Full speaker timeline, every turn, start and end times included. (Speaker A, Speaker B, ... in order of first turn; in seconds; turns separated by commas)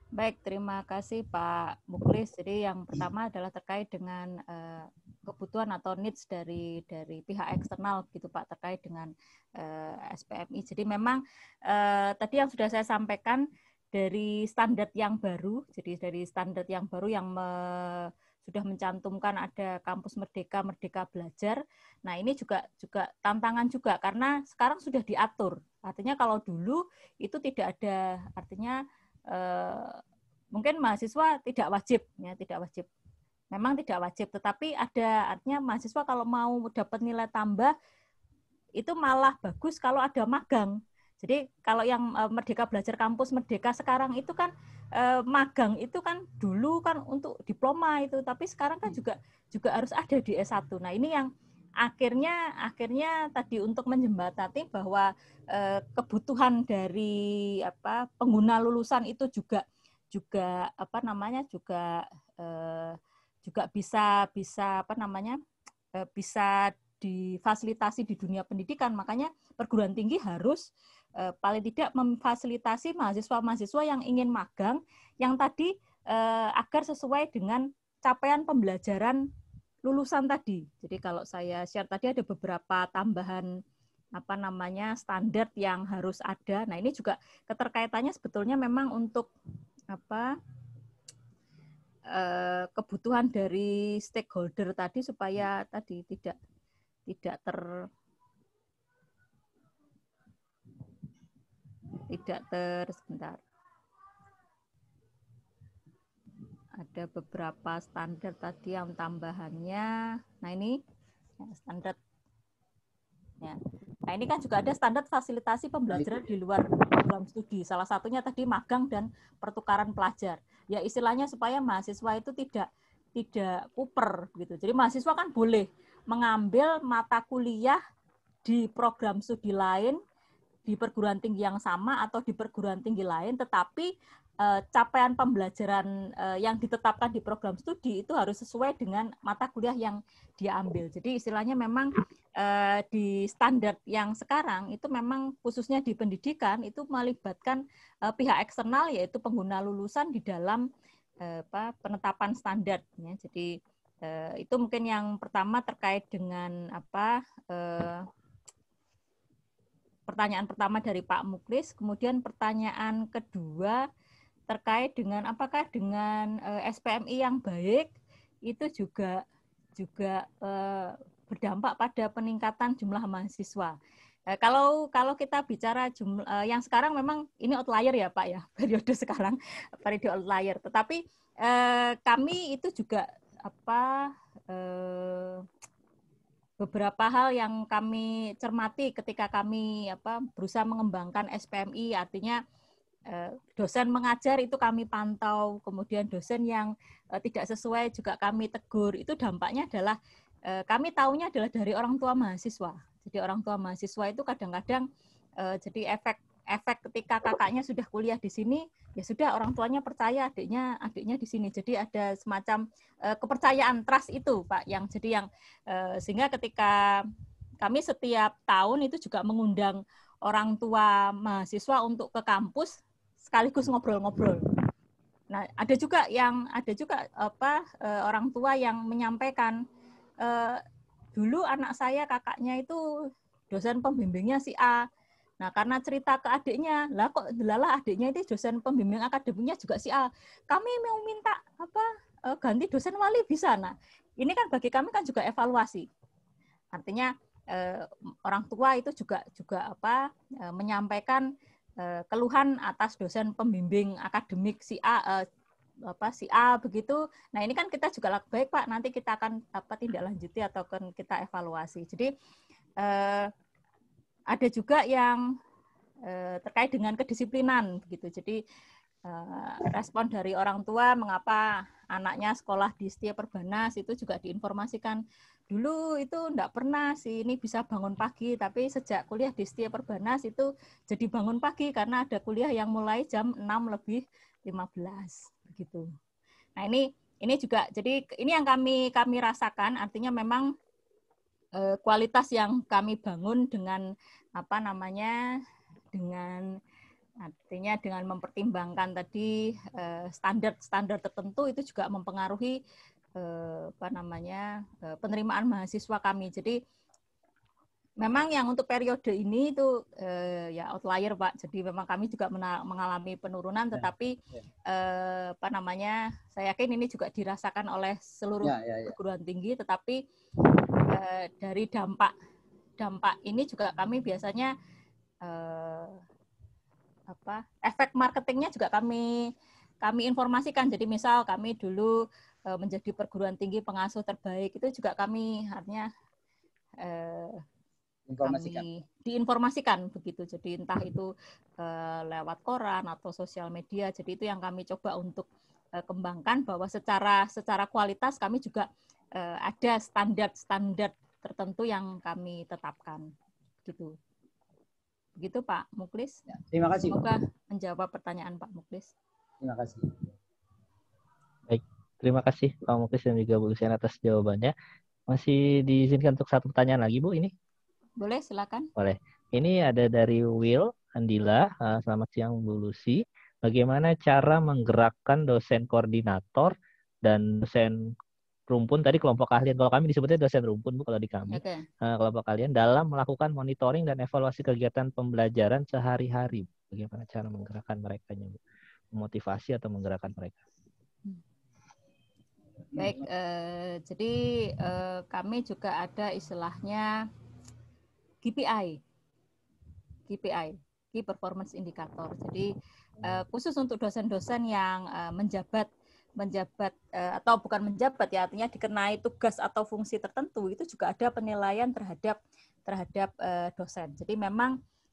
Speaker A: 0.2-28.8, Speaker A: 29.3-30.0, Speaker A: 30.5-32.9, Speaker A: 33.5-37.7, Speaker A: 38.8-51.3, Speaker A: 51.8-65.4, Speaker A: 66.0-70.7, Speaker A: 71.2-79.2, Speaker A: 79.9-83.5, Speaker A: 84.2-89.3, Speaker A: 89.9-90.3, Speaker A: 92.1-96.4, Speaker A: 97.1-97.6, Speaker A: 102.1-103.4, Speaker A: 106.8-109.9, Speaker A: 110.4-110.8, Speaker A: 111.4-112.0, Speaker A: 113.4-127.8, Speaker B: 115.9-116.2, Speaker A: 128.4-130.0, Speaker A: 130.7-133.9, Speaker A: 134.4-150.6, Speaker A: 151.2-153.5, Speaker A: 154.1-158.1, Speaker A: 160.1-163.8, Speaker A: 164.5-167.9, Speaker A: 168.5-169.2, Speaker A: 169.8-173.8, Speaker A: 174.3-185.4, Speaker A: 186.6-192.4, Speaker A: 193.1-200.0, Speaker A: 200.5-204.9, Speaker A: 205.4-216.8, Speaker A: 217.6-224.4, Speaker A: 225.3-229.6, Speaker A: 230.2-230.6, Speaker A: 231.2-232.8, Speaker A: 233.5-234.8, Speaker A: 235.4-245.9, Speaker A: 246.7-251.2, Speaker A: 251.8-255.2, Speaker A: 255.9-262.1, Speaker A: 262.8-263.3, Speaker A: 264.3-265.2, Speaker A: 266.1-268.4, Speaker A: 269.1-285.9, Speaker A: 286.6-290.5, Speaker A: 291.6-293.8, Speaker A: 294.4-295.2, Speaker A: 295.9-296.5, Speaker A: 297.2-302.6, Speaker A: 303.2-306.6, Speaker A: 308.0-314.2, Speaker B: 313.7-314.5, Speaker A: 314.7-320.0, Speaker B: 318.4-318.9, Speaker A: 320.9-322.1, Speaker A: 322.8-324.5, Speaker A: 325.2-326.0, Speaker A: 327.1-335.9, Speaker A: 336.8-337.4, Speaker B: 338.1-338.6, Speaker A: 338.2-345.3, Speaker A: 345.8-353.1, Speaker A: 353.6-353.9, Speaker A: 355.2-356.2, Speaker B: 356.3-357.1, Speaker A: 356.8-358.9, Speaker B: 359.4-359.9, Speaker C: 361.5-364.5, Speaker C: 365.1-367.3, Speaker A: 368.0-368.7, Speaker C: 368.8-377.8, Speaker C: 378.5-388.4, Speaker A: 381.3-381.6, Speaker C: 388.9-390.4, Speaker B: 392.8-393.1, Speaker A: 392.8-396.9, Speaker A: 398.2-398.8, Speaker A: 400.1-402.5, Speaker A: 403.0-414.6